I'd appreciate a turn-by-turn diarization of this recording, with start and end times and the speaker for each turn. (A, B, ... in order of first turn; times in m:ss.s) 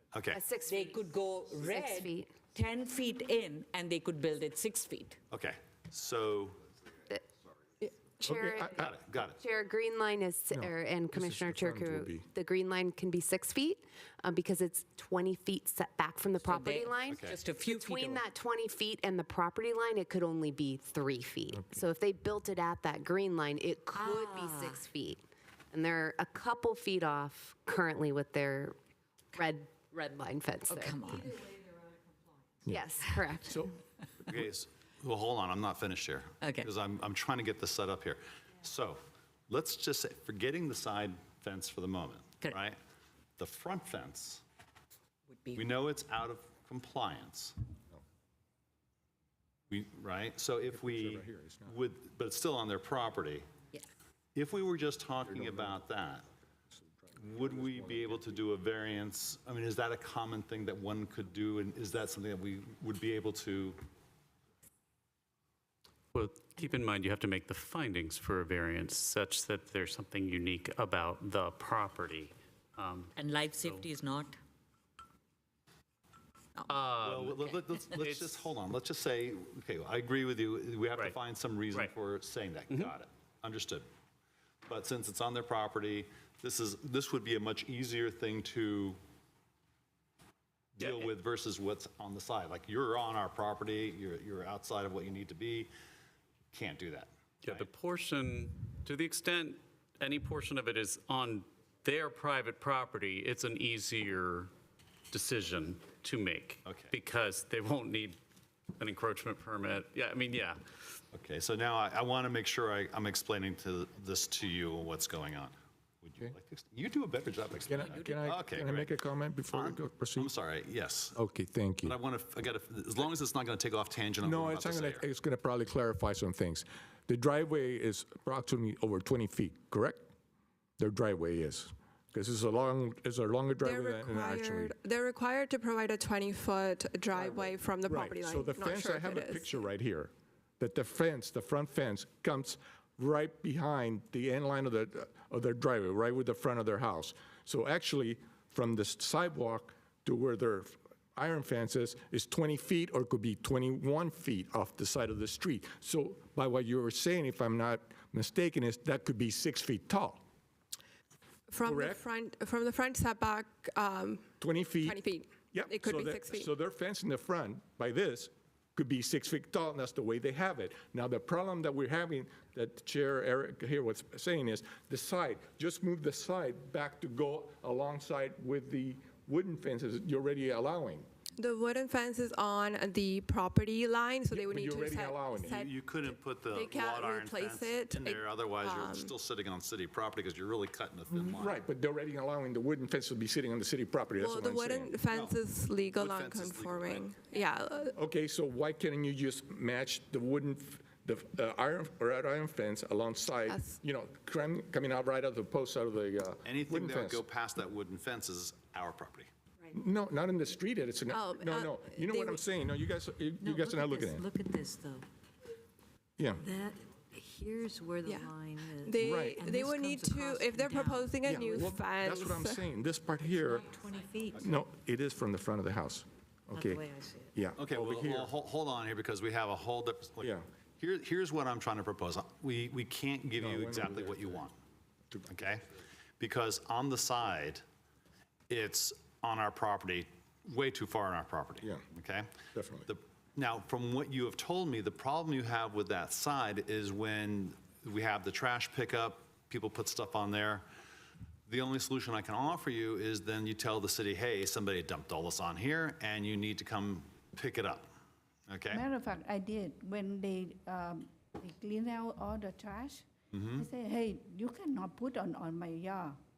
0:00.1-0:00.5 A
0:00.3-0:02.4 B
0:00.6-0:05.2 C
0:05.3-0:06.6 A
0:07.8-0:28.8 B
0:08.2-0:08.9 D
0:08.8-0:09.4 A
0:10.5-0:12.2 D
0:16.4-0:18.2 C
0:17.1-0:17.4 A
0:23.9-0:24.8 C
0:29.3-0:31.1 B
0:30.7-0:31.3 C
0:32.7-0:33.6 B
0:33.4-0:33.7 D
0:34.3-0:42.8 A
0:36.4-0:36.7 C
0:43.4-0:44.4 A
0:45.3-0:45.6 C
0:45.5-0:47.5 A
0:49.7-0:53.5 A
0:50.7-0:51.8 D
0:54.3-0:56.2 A
0:55.3-0:55.8 D
0:56.7-0:58.4 D
0:57.2-1:03.8 A
1:06.1-1:13.9 E
1:13.2-1:14.4 C
1:16.7-1:18.5 E
1:17.0-1:23.8 A
1:24.7-1:29.0 A
1:30.8-1:35.7 A
1:30.8-1:31.1 E
1:36.5-1:37.7 A
1:37.4-1:44.5 E
1:45.1-1:48.2 E
1:46.6-1:46.9 A
1:48.8-1:50.6 E
1:51.1-1:58.9 A
1:57.7-2:00.3 D
1:57.8-1:58.1 C
1:59.5-2:01.2 A
2:01.1-2:02.0 D
2:01.8-2:05.0 A
2:04.2-2:10.0 D
2:10.8-2:14.8 D
2:13.6-2:19.6 F
2:17.2-2:40.2 D
2:41.5-2:44.3 F
2:41.6-2:42.0 D
2:44.4-2:45.0 D
2:44.8-2:46.5 F
2:45.5-3:01.1 D
3:01.4-3:05.8 F
3:04.3-3:05.6 D
3:05.5-3:11.6 A
3:06.5-3:09.1 F
3:11.1-3:14.9 D
3:14.2-3:18.0 F
3:15.1-3:15.4 A
3:16.0-3:17.2 A
3:18.0-3:27.2 D
3:23.5-3:23.8 F
3:26.4-3:29.3 A
3:29.7-3:34.2 D
3:31.1-3:32.4 F
3:33.4-3:35.1 G
3:36.2-3:36.4 D
3:36.3-3:41.0 G
3:38.0-3:38.3 F
3:38.8-3:42.7 F
3:39.0-3:39.4 D
3:41.2-3:43.6 D
3:43.1-3:44.7 G
3:44.4-3:46.8 D
3:46.5-3:47.3 G
3:47.3-3:48.3 D
3:47.6-3:54.5 A
3:53.4-3:54.4 D
3:55.3-3:55.6 A
3:56.2-3:57.6 A
3:58.5-4:02.3 A
4:02.5-4:02.9 D
4:02.8-4:10.6 A
4:11.5-4:17.9 A
4:18.5-4:18.8 A
4:18.7-4:26.2 H
4:23.3-4:23.6 A